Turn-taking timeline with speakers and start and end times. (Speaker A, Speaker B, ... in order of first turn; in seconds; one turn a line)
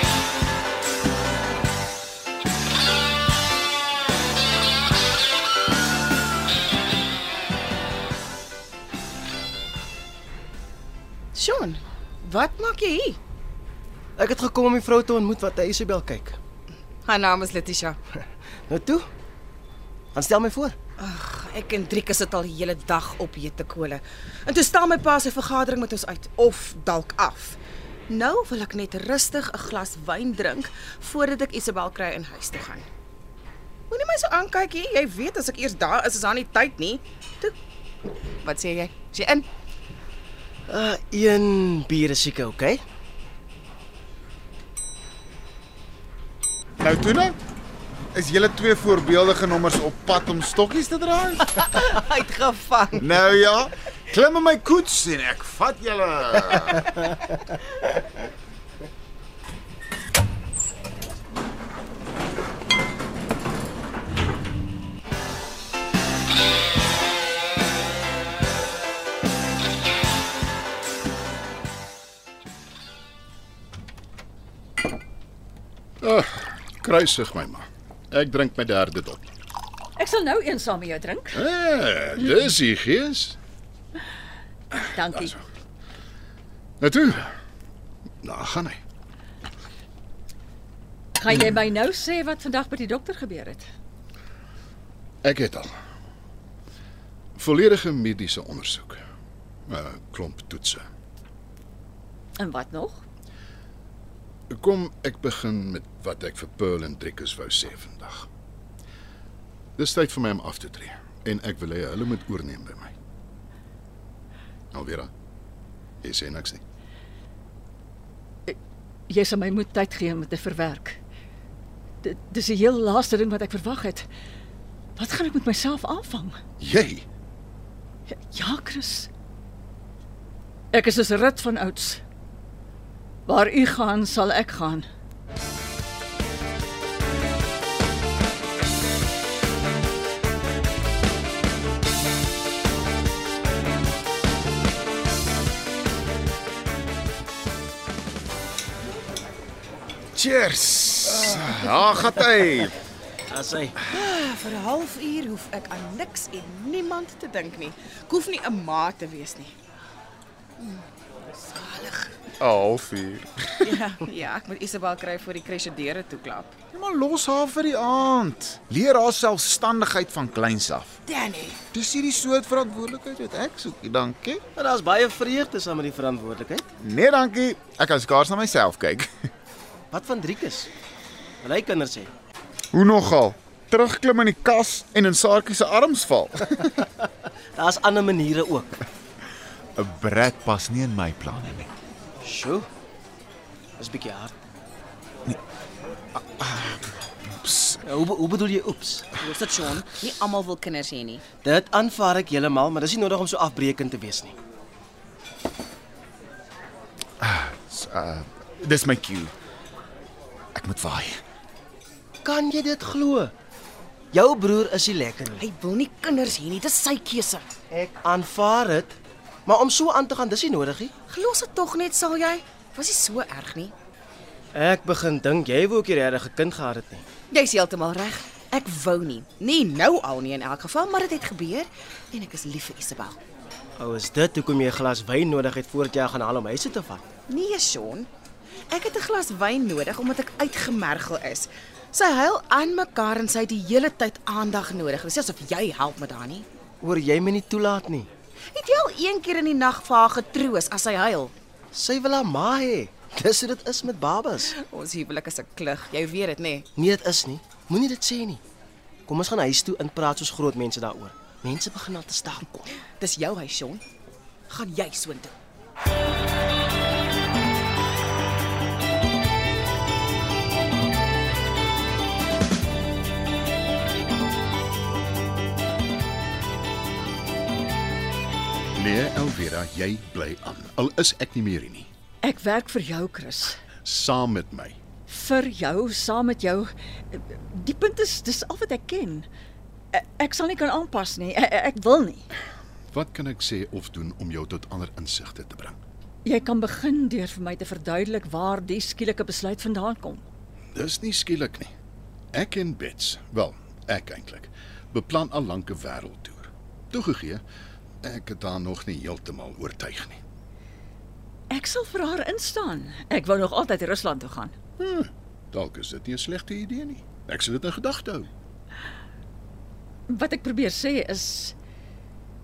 Speaker A: 11.3-13.2
Speaker B: 14.2-16.4
Speaker A: 17.1-18.0
Speaker B: 18.7-19.1
Speaker B: 20.1-20.8
Speaker A: 21.0-32.9
Speaker A: 33.9-37.6
Speaker A: 38.4-39.5
Speaker B: 40.7-42.8
Speaker C: 46.8-47.4
Speaker C: 48.1-51.5
Speaker A: 51.6-53.0
Speaker C: 53.0-56.9
Speaker D: 76.0-79.3
Speaker E: 80.0-81.4
Speaker D: 81.3-83.4
Speaker E: 84.8-85.4
Speaker D: 86.8-87.3
Speaker D: 88.2-88.8
Speaker E: 91.2-93.7
Speaker D: 95.2-95.7
Speaker D: 97.4-99.0
Speaker D: 99.7-100.8
Speaker E: 102.4-103.0
Speaker D: 104.5-108.3
Speaker D: 109.8-113.0
Speaker D: 114.7-115.1
Speaker D: 116.0-116.6
Speaker E: 119.1-121.0
Speaker E: 122.0-124.1
Speaker E: 125.0-126.4
Speaker D: 126.6-127.0
Speaker E: 128.1-129.1
Speaker E: 130.7-132.0
Speaker E: 133.3-134.9
Speaker C: 150.2-152.7
Speaker B: 153.3-153.8
Speaker A: 153.9-159.5
Speaker A: 160.6-162.1
Speaker C: 162.4-163.8
Speaker A: 163.6-166.5
Speaker C: 166.7-171.0
Speaker A: 171.1-171.6
Speaker C: 171.7-174.4
Speaker B: 174.6-176.7
Speaker C: 176.8-179.3
Speaker B: 179.9-180.7
Speaker B: 181.4-182.1
Speaker C: 182.7-186.8
Speaker B: 187.6-188.8
Speaker C: 189.8-191.7
Speaker B: 192.2-192.7
Speaker B: 193.8-194.3
Speaker C: 196.2-197.8
Speaker B: 197.8-199.2
Speaker A: 199.2-201.2
Speaker B: 201.3-204.4
Speaker C: 207.2-209.3
Speaker C: 210.6-211.2
Speaker B: 212.2-213.3
Speaker B: 214.1-215.4
Speaker A: 215.4-217.5
Speaker B: 217.7-220.9
Speaker A: 221.1-223.7
Speaker B: 224.6-227.1
Speaker A: 227.3-233.2
Speaker B: 233.8-237.1
Speaker A: 237.3-238.1
Speaker A: 238.7-246.5
Speaker B: 246.8-248.1
Speaker A: 248.5-251.3
Speaker B: 251.7-254.5
Speaker A: 254.5-256.7
Speaker B: 256.8-258.4
Speaker B: 259.1-262.7
Speaker A: 262.9-263.8
Speaker A: 264.5-265.3
Speaker D: 278.8-281.9
Speaker E: 282.2-283.6
Speaker D: 283.8-284.8
Speaker E: 285.1-289.3
Speaker E: 289.9-292.3
Speaker D: 292.9-295.8
Speaker E: 296.2-300.2
Speaker D: 300.7-301.7
Speaker D: 302.3-307.4
Speaker D: 308.0-310.2
Speaker E: 311.5-314.5
Speaker D: 314.8-318.3
Speaker E: 320.1-321.6